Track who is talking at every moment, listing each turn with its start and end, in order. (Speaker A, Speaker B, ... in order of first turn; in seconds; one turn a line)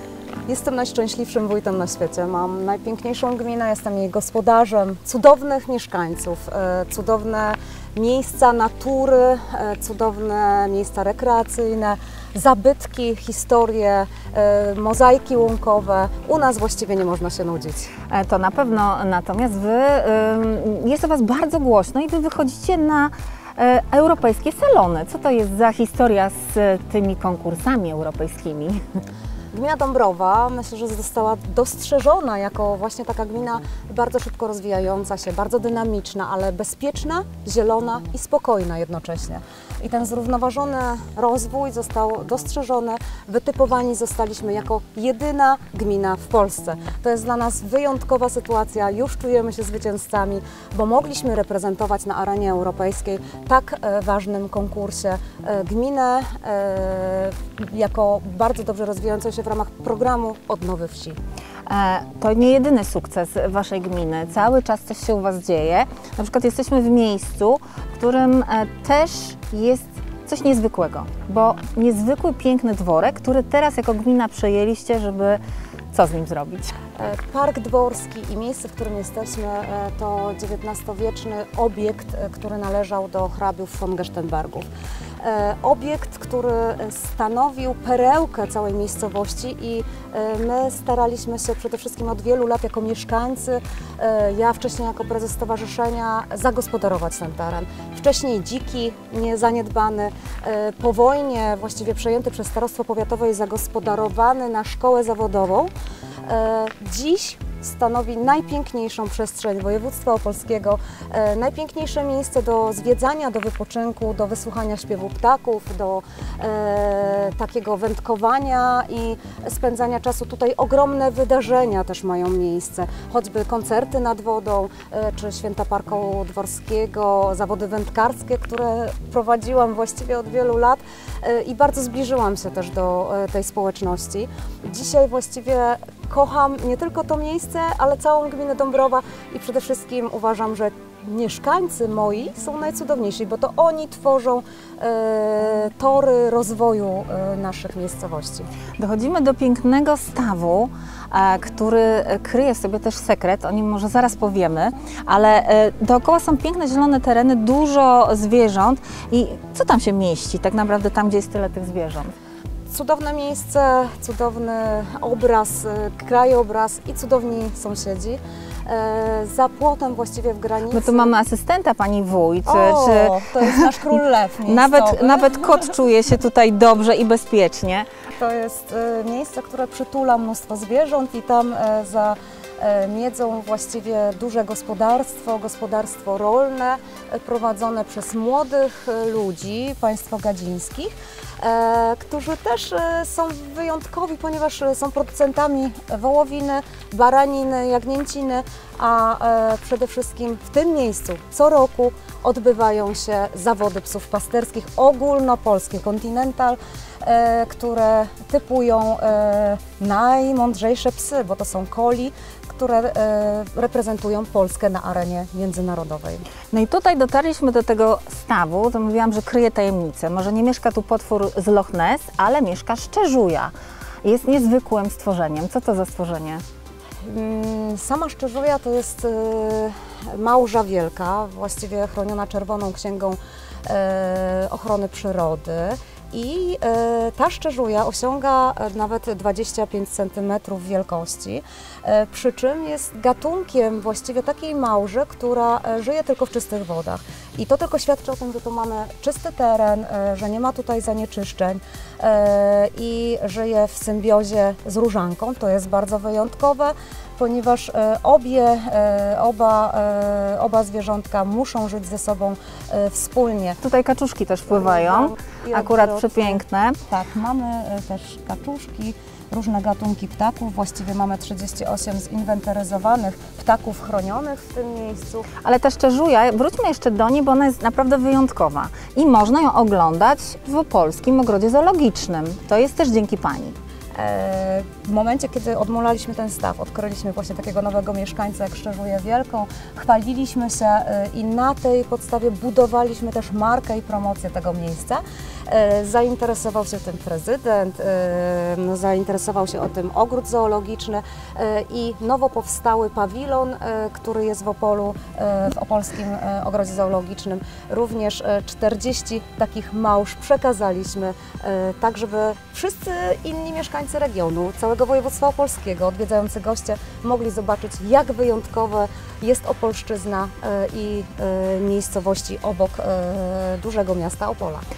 Speaker A: 0.5-17.9
Speaker B: 18.1-28.8
Speaker A: 29.5-61.2
Speaker B: 61.7-76.7
Speaker A: 77.0-84.7
Speaker A: 85.2-105.7
Speaker A: 106.2-148.5
Speaker B: 148.8-162.1
Speaker A: 162.7-171.1
Speaker B: 170.7-173.7
Speaker A: 172.4-175.6
Speaker B: 174.4-177.9
Speaker A: 178.1-216.2
Speaker B: 216.5-223.5
Speaker B: 224.0-226.4
Speaker A: 227.0-263.6
Speaker B: 263.6-266.8
Speaker A: 264.5-275.3
Speaker B: 275.4-283.5
Speaker A: 283.9-324.7